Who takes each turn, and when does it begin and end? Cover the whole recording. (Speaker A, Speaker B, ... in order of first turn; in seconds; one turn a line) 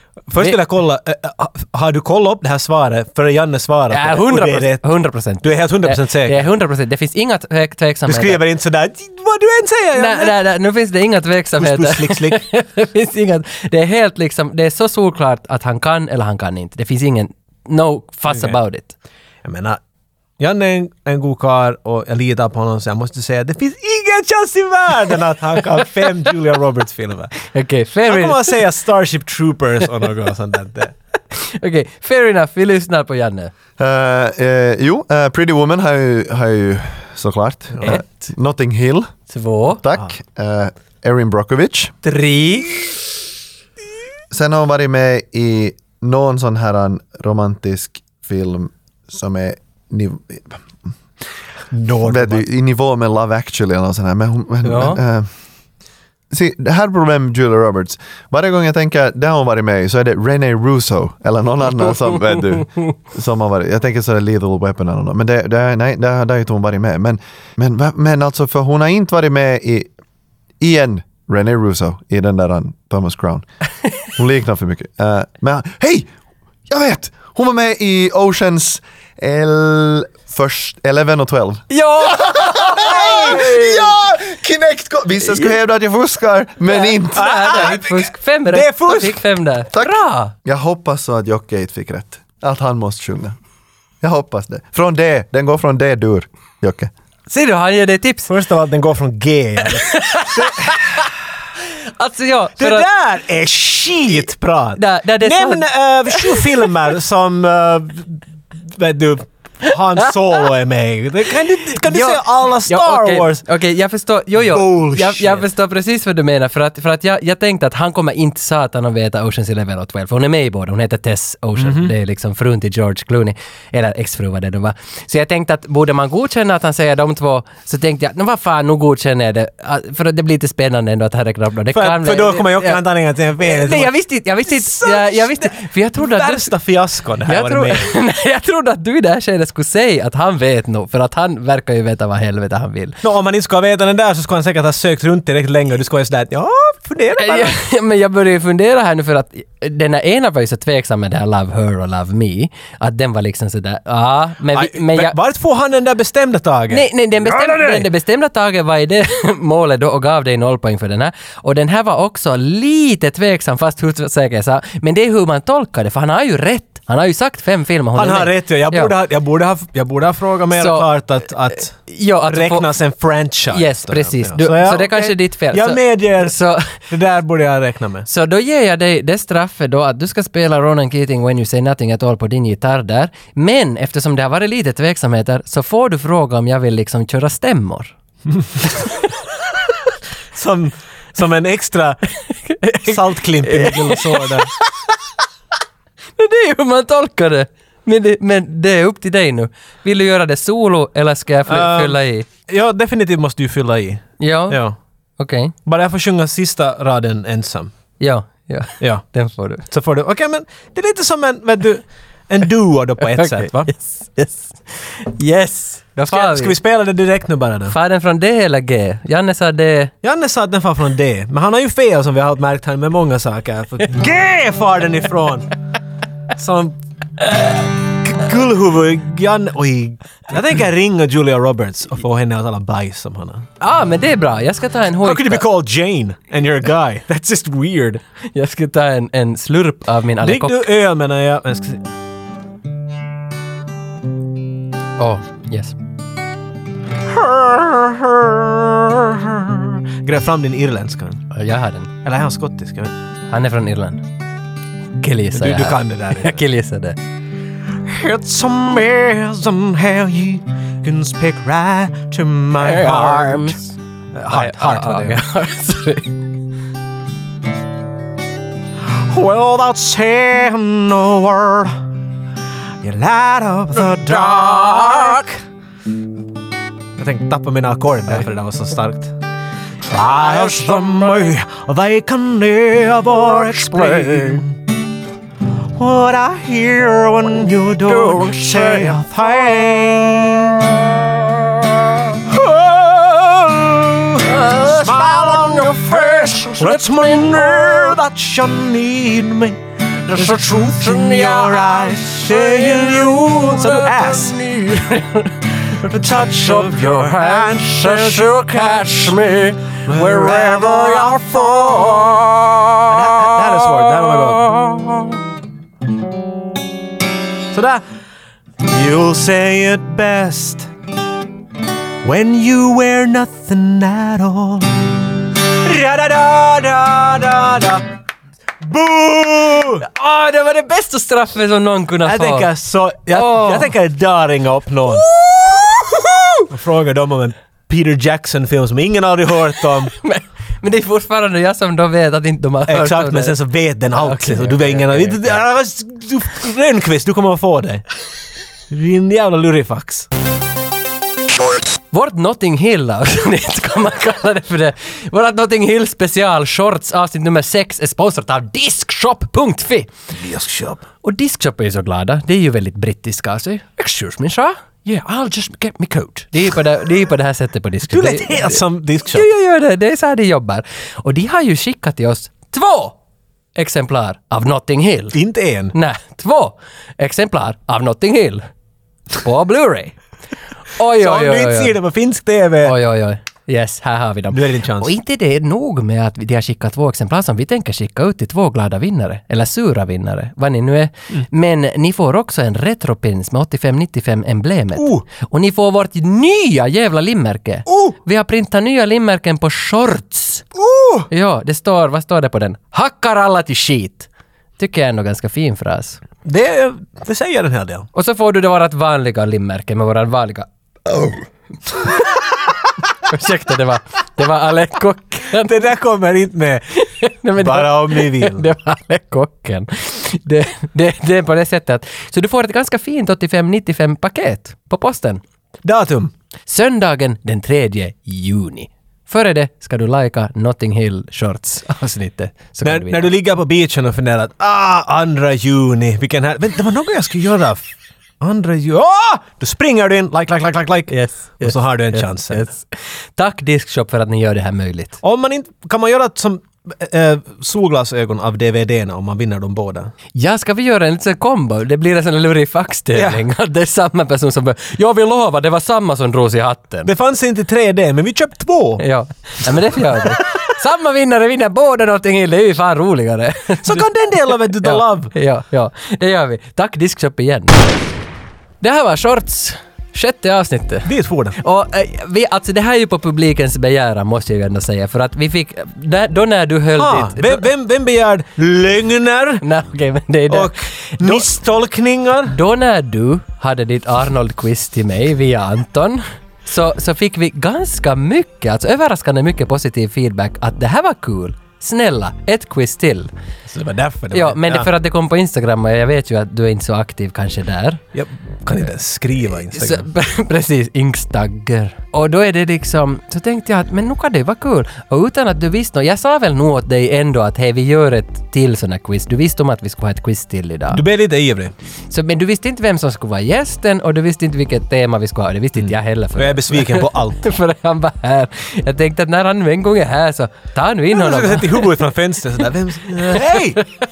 Speaker A: 0.3-4.8
Speaker B: 3.9-8.4
Speaker A: 5.4-6.5
Speaker A: 8.1-10.3
Speaker B: 9.9-18.9
Speaker A: 11.6-12.4
Speaker A: 18.3-18.6
Speaker A: 19.4-19.8
Speaker A: 20.4-27.3
Speaker B: 27.5-28.5
Speaker A: 28.1-30.9
Speaker B: 31.4-33.5
Speaker C: 33.8-39.2
Speaker B: 39.3-39.8
Speaker C: 39.8-41.9
Speaker B: 42.0-42.9
Speaker C: 44.3-50.6
Speaker A: 51.7-52.4
Speaker C: 52.0-55.3
Speaker B: 54.6-55.0
Speaker C: 56.3-69.9
Speaker C: 70.6-73.4
Speaker C: 74.2-76.1
Speaker C: 76.7-87.6
Speaker B: 81.7-83.9
Speaker B: 86.7-90.3
Speaker A: 87.2-89.3
Speaker C: 89.7-93.3
Speaker C: 94.0-96.9
Speaker B: 97.3-98.3
Speaker A: 98.3-100.8
Speaker B: 99.9-101.0
Speaker B: 102.0-102.8
Speaker A: 102.6-113.4
Speaker B: 104.8-106.4
Speaker B: 111.8-132.8
Speaker A: 114.5-115.5
Speaker A: 121.5-121.9
Speaker A: 131.7-137.9
Speaker B: 133.4-136.5
Speaker B: 137.2-143.0
Speaker A: 143.0-147.6
Speaker B: 147.2-155.1
Speaker A: 154.5-157.9
Speaker B: 156.7-168.9
Speaker A: 167.9-178.1
Speaker B: 170.5-170.9
Speaker B: 171.8-172.7
Speaker B: 173.5-176.8
Speaker B: 178.1-187.9
Speaker A: 188.3-188.7
Speaker A: 190.3-192.0
Speaker B: 192.5-194.2
Speaker A: 192.8-194.5
Speaker B: 196.2-202.2
Speaker A: 201.4-204.8
Speaker B: 204.2-204.6
Speaker B: 205.2-205.5
Speaker A: 205.6-207.7
Speaker B: 208.0-209.7
Speaker A: 208.8-209.0
Speaker A: 209.7-213.7
Speaker B: 213.0-216.6
Speaker A: 216.1-217.8
Speaker B: 217.7-219.9
Speaker A: 220.0-225.5
Speaker A: 226.3-233.5
Speaker B: 233.6-235.4
Speaker A: 235.0-238.0
Speaker B: 238.3-240.7
Speaker A: 240.2-241.8
Speaker B: 245.0-245.7
Speaker A: 247.1-251.2
Speaker B: 251.3-251.9
Speaker A: 252.0-252.9
Speaker B: 253.3-254.0
Speaker B: 255.0-257.0
Speaker A: 255.3-256.4
Speaker A: 257.7-263.6
Speaker B: 262.6-263.7
Speaker A: 264.1-265.2
Speaker B: 264.3-266.1
Speaker A: 268.9-271.8
Speaker A: 272.8-275.4
Speaker A: 277.0-279.2
Speaker A: 279.8-284.6
Speaker B: 283.3-284.4
Speaker A: 285.6-290.9
Speaker B: 287.9-289.0
Speaker A: 292.2-304.4
Speaker B: 294.3-297.8
Speaker B: 300.1-311.3
Speaker A: 305.7-309.2
Speaker A: 309.8-312.2
Speaker B: 312.1-312.8
Speaker A: 312.9-315.2
Speaker A: 317.5-317.8
Speaker A: 318.6-320.7
Speaker A: 322.0-327.9
Speaker A: 328.6-329.8
Speaker B: 329.8-332.5
Speaker A: 332.0-335.1
Speaker B: 333.1-333.7
Speaker B: 335.1-336.3
Speaker A: 336.5-339.9
Speaker B: 339.9-343.4
Speaker A: 342.7-347.8
Speaker B: 343.9-345.4
Speaker A: 348.7-350.1
Speaker B: 351.9-359.9
Speaker A: 360.1-360.8
Speaker B: 361.0-372.9
Speaker A: 367.9-369.2
Speaker B: 373.6-375.2
Speaker A: 375.1-375.7
Speaker B: 375.7-378.4
Speaker B: 379.2-379.9
Speaker B: 380.8-381.8
Speaker A: 380.9-382.8
Speaker B: 382.6-400.4
Speaker A: 384.3-384.9
Speaker A: 394.8-395.0
Speaker A: 397.7-398.0
Speaker A: 400.5-401.1
Speaker B: 401.1-406.0
Speaker A: 406.2-407.9
Speaker B: 407.9-410.5
Speaker B: 411.7-412.2
Speaker B: 413.1-415.5
Speaker A: 415.3-416.6
Speaker B: 416.9-425.2
Speaker A: 417.4-418.4
Speaker A: 425.6-426.1
Speaker B: 426.5-433.1
Speaker A: 432.6-442.4
Speaker B: 440.9-445.0
Speaker A: 445.0-449.9
Speaker B: 450.1-456.9
Speaker A: 452.9-453.2
Speaker A: 456.8-458.8
Speaker B: 458.8-463.9
Speaker A: 459.7-460.2
Speaker A: 463.6-465.1
Speaker B: 464.6-467.6
Speaker B: 468.6-477.4
Speaker A: 470.8-471.4
Speaker A: 476.8-479.4
Speaker B: 479.4-481.3
Speaker A: 480.3-482.4
Speaker B: 482.3-493.1
Speaker A: 493.5-494.7
Speaker B: 494.1-497.8
Speaker A: 497.9-499.9
Speaker B: 499.3-510.8
Speaker A: 510.7-511.5
Speaker B: 511.9-521.7
Speaker A: 515.6-517.2
Speaker A: 520.9-523.6
Speaker B: 523.1-523.6